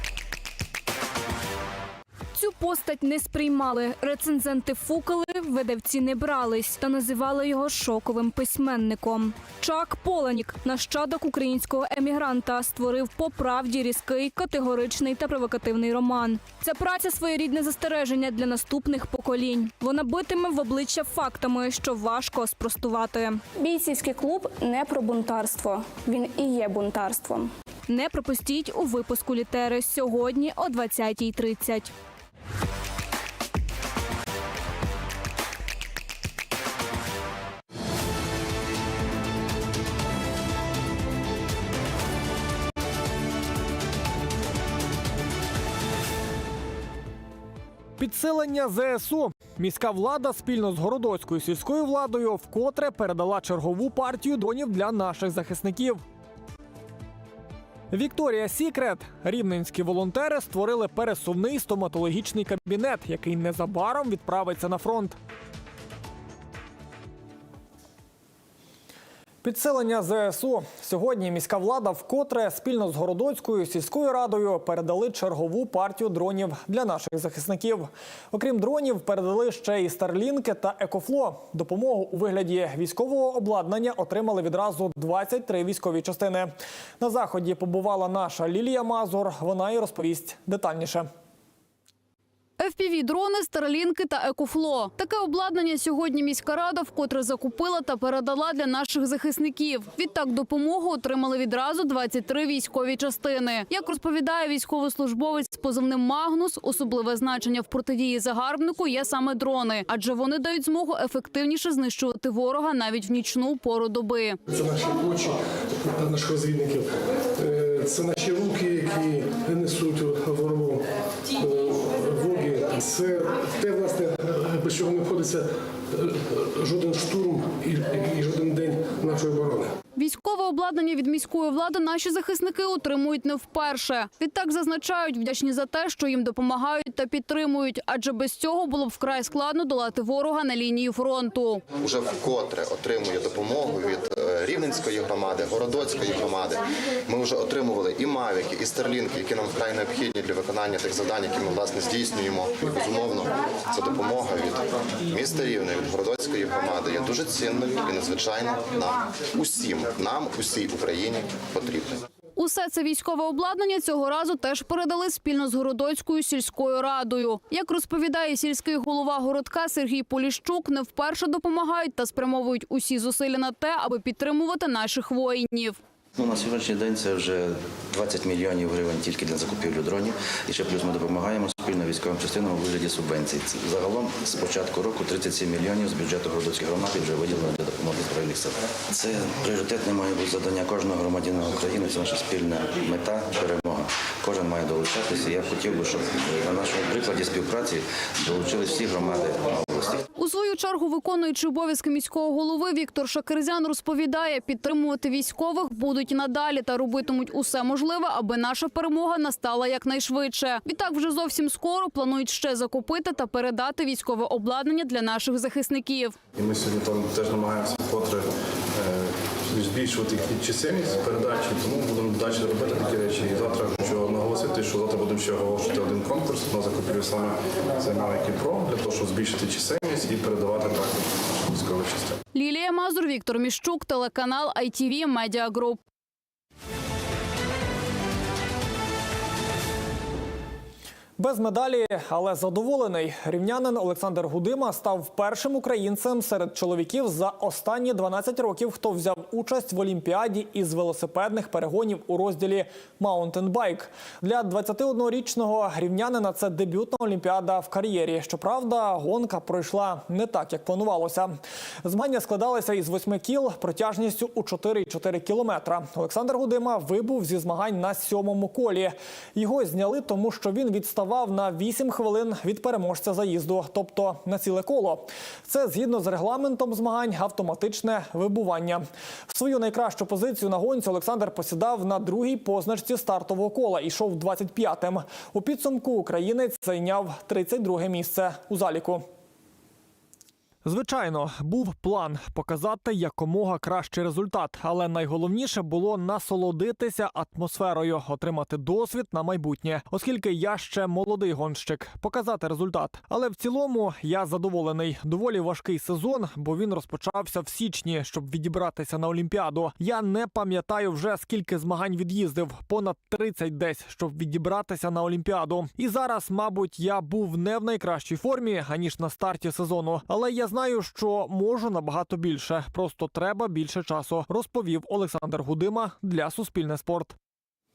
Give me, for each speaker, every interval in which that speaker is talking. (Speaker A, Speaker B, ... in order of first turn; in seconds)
Speaker A: 2.3-23.4, 27.9-31.9
Speaker B: 23.6-27.5
Speaker C: 48.0-56.0, 57.9-65.2, 69.4-91.1, 241.2-289.1, 290.6-327.1
Speaker D: 92.6-114.4, 129.9-141.6, 162.3-175.8, 200.2-216.2, 232.3-235.8
Speaker E: 114.5-129.7
Speaker F: 141.8-162.0
Speaker G: 176.2-200.0
Speaker H: 216.3-232.2